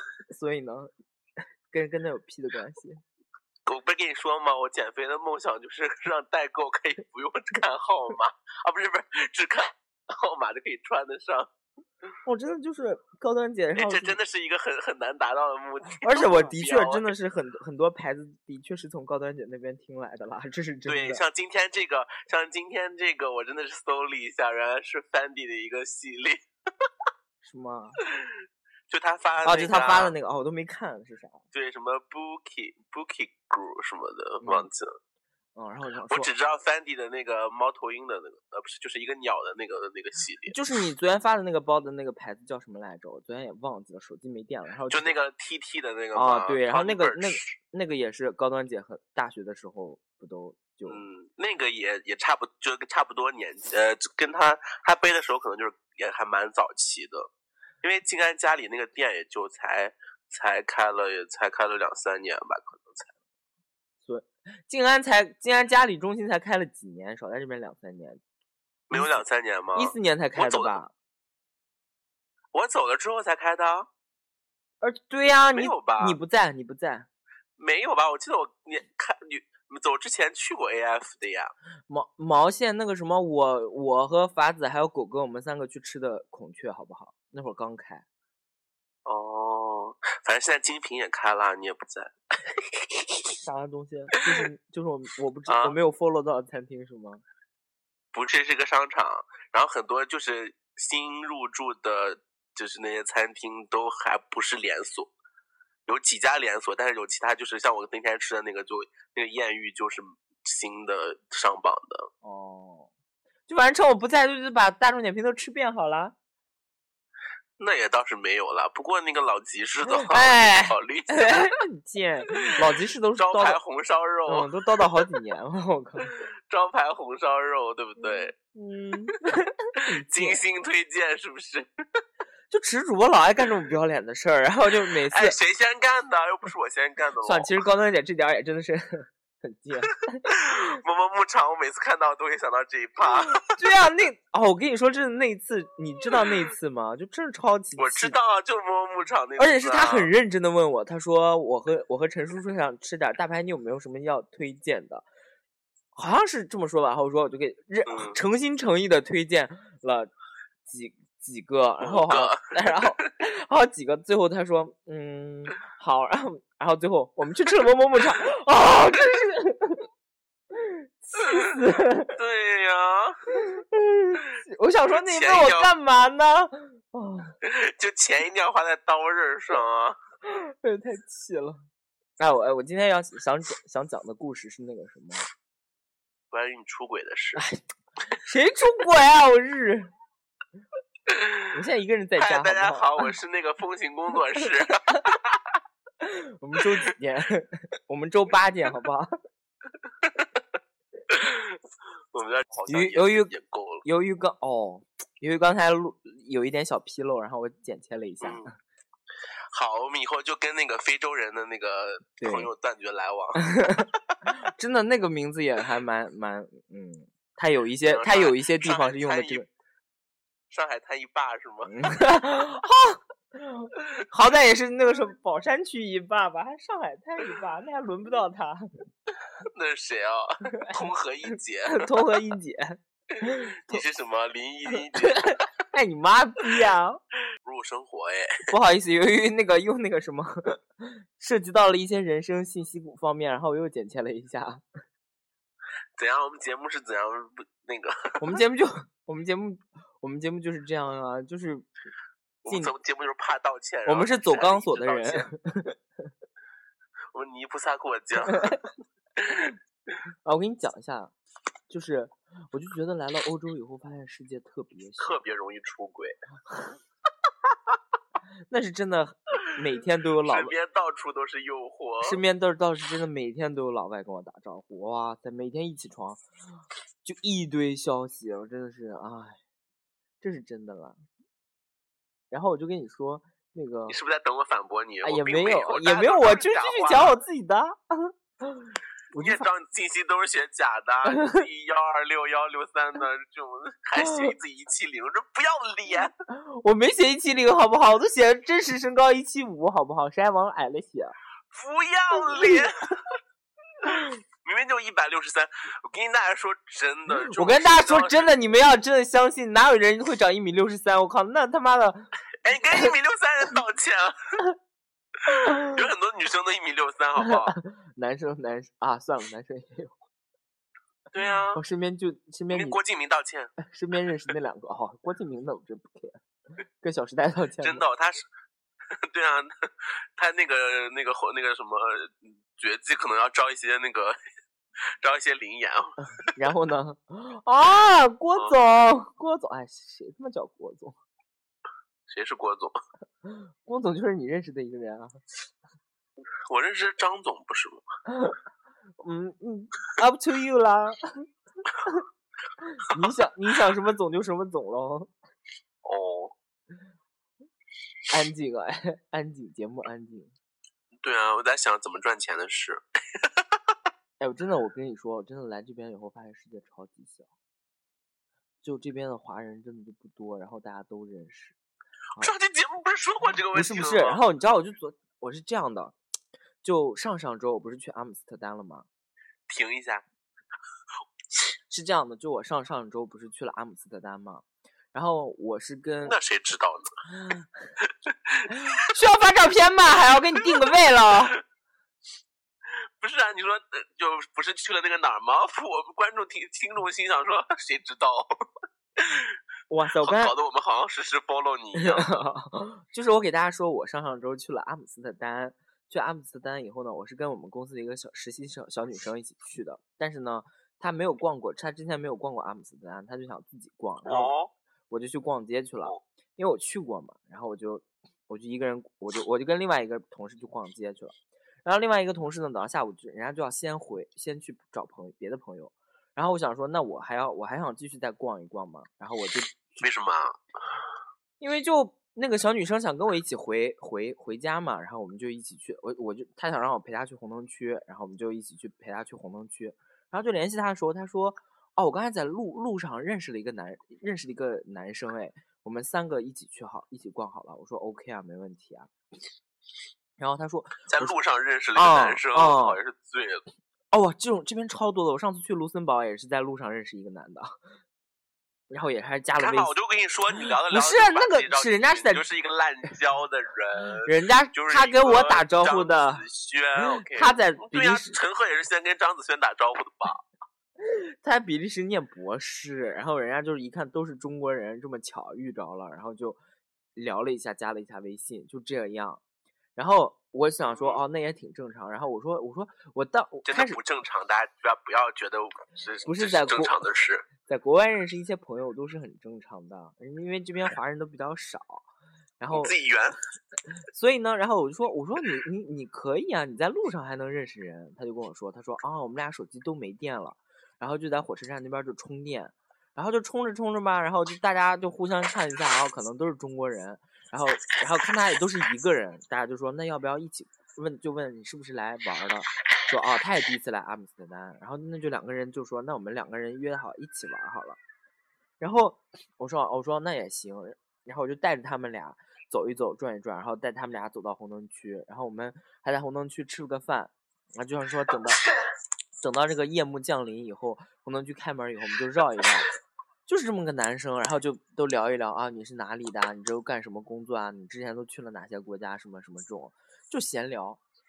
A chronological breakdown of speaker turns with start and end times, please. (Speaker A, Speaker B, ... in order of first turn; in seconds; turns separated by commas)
Speaker A: 0.3-0.9, Speaker A: 1.7-3.0, Speaker B: 3.6-11.5, Speaker A: 12.2-14.2, Speaker B: 13.8-17.1, Speaker A: 16.0-21.2, Speaker B: 20.9-26.4, Speaker A: 27.4-28.0, Speaker B: 28.9-30.1, Speaker A: 29.4-31.4, Speaker B: 31.5-35.0, Speaker A: 34.4-34.7, Speaker A: 35.5-36.3, Speaker B: 36.1-40.5, Speaker A: 40.5-45.1, Speaker B: 44.9-47.5, Speaker A: 46.1-51.0, Speaker B: 50.9-57.3, Speaker B: 57.8-63.1, Speaker A: 64.0-68.2, Speaker B: 68.9-70.8, Speaker A: 68.9-69.2, Speaker A: 69.7-70.9, Speaker B: 72.5-73.9, Speaker A: 74.8-77.1, Speaker B: 75.5-76.2, Speaker B: 77.6-81.5, Speaker A: 81.9-88.0, Speaker B: 89.0-93.3, Speaker A: 93.4-97.2, Speaker B: 95.5-95.8, Speaker B: 98.1-105.1, Speaker B: 105.8-112.1, Speaker A: 112.2-112.9, Speaker A: 113.5-116.1, Speaker B: 117.6-121.5, Speaker A: 119.9-123.6, Speaker B: 123.2-124.5, Speaker A: 124.3-126.1, Speaker B: 126.5-128.3, Speaker A: 128.0-130.4, Speaker B: 130.1-131.7, Speaker A: 132.5-135.4, Speaker B: 135.1-137.5, Speaker A: 137.2-140.6, Speaker B: 140.3-143.4, Speaker A: 143.2-148.2, Speaker B: 147.8-150.1, Speaker A: 149.4-155.0, Speaker A: 155.9-160.1, Speaker B: 157.9-158.2, Speaker A: 160.7-169.8, Speaker B: 161.8-163.1, Speaker A: 170.5-172.1, Speaker B: 171.2-171.5, Speaker B: 172.1-173.2, Speaker A: 173.3-177.3, Speaker B: 174.9-175.7, Speaker B: 177.4-180.0, Speaker A: 180.2-181.6, Speaker A: 182.2-185.3, Speaker B: 186.3-187.4, Speaker A: 187.3-187.6, Speaker A: 188.1-189.9, Speaker B: 191.1-191.4, Speaker A: 191.5-193.1, Speaker B: 192.2-195.6, Speaker A: 196.0-199.1, Speaker B: 200.0-200.4, Speaker B: 201.1-201.6, Speaker B: 202.1-203.8, Speaker A: 202.7-203.3, Speaker A: 203.8-208.5, Speaker B: 208.2-208.5, Speaker B: 209.5-213.9, Speaker A: 212.2-212.5, Speaker A: 213.4-219.5, Speaker B: 217.9-219.4, Speaker B: 220.5-221.9, Speaker A: 221.6-228.7, Speaker B: 229.4-232.2, Speaker A: 231.7-233.8, Speaker B: 233.2-235.4, Speaker A: 234.9-237.0, Speaker B: 237.4-238.3, Speaker A: 238.5-244.6, Speaker B: 246.0-248.2, Speaker A: 248.2-251.7, Speaker B: 252.4-255.2, Speaker A: 252.4-252.7, Speaker A: 253.8-255.8, Speaker B: 257.1-258.6, Speaker A: 258.3-258.6, Speaker B: 259.2-259.5, Speaker A: 260.2-261.1, Speaker A: 261.7-265.2, Speaker B: 265.0-266.2, Speaker A: 268.5-270.5, Speaker B: 270.2-272.2, Speaker A: 272.0-276.2, Speaker A: 277.0-279.4, Speaker A: 280.2-281.0, Speaker A: 282.3-284.0, Speaker B: 283.9-287.2, Speaker A: 285.0-289.5, Speaker B: 289.2-296.1, Speaker A: 291.1-291.4, Speaker A: 294.0-294.3, Speaker A: 296.3-301.1, Speaker B: 301.5-302.9, Speaker A: 302.2-302.7, Speaker B: 303.8-308.3, Speaker A: 307.1-312.1, Speaker B: 312.4-314.2, Speaker A: 315.3-315.7, Speaker B: 315.3-317.6, Speaker A: 317.2-319.9, Speaker B: 321.1-321.6, Speaker A: 321.5-322.8, Speaker B: 322.5-323.5, Speaker A: 323.6-326.2, Speaker A: 326.8-327.8, Speaker B: 327.6-328.3, Speaker B: 329.0-334.1, Speaker B: 335.0-335.9, Speaker A: 336.2-341.0, Speaker B: 342.1-342.8, Speaker A: 343.2-345.2, Speaker B: 346.5-347.8, Speaker A: 348.1-348.4, Speaker A: 349.0-351.0, Speaker A: 352.6-355.1, Speaker B: 355.8-356.3, Speaker A: 358.1-360.3, Speaker B: 361.0-363.5, Speaker A: 364.2-367.3, Speaker A: 368.6-371.6, Speaker B: 372.2-374.2, Speaker A: 373.5-375.9, Speaker A: 376.6-378.9, Speaker B: 379.5-380.0, Speaker A: 381.7-386.1, Speaker B: 386.0-386.9, Speaker A: 387.1-387.5, Speaker B: 387.8-388.6, Speaker A: 388.5-391.4, Speaker B: 392.7-398.4, Speaker B: 399.0-399.3, Speaker A: 399.7-400.3, Speaker B: 400.0-402.2, Speaker A: 401.7-414.3, Speaker B: 414.0-414.5, Speaker A: 414.9-421.1, Speaker A: 421.6-429.8, Speaker B: 429.8-430.4, Speaker A: 431.4-448.9, Speaker A: 450.2-451.1, Speaker B: 450.9-453.4, Speaker A: 451.7-452.8, Speaker A: 453.9-457.6, Speaker A: 458.7-459.7, Speaker B: 459.4-470.2, Speaker A: 460.7-462.2, Speaker A: 464.0-466.2, Speaker A: 466.8-468.2, Speaker A: 470.8-476.4, Speaker A: 476.9-479.2, Speaker A: 479.8-483.8, Speaker B: 480.6-481.0, Speaker B: 483.4-487.3, Speaker A: 486.1-486.8, Speaker A: 487.4-491.9, Speaker A: 492.4-492.7, Speaker B: 492.5-493.1, Speaker A: 493.9-517.8, Speaker A: 518.6-528.4, Speaker A: 529.2-532.7, Speaker A: 533.2-540.8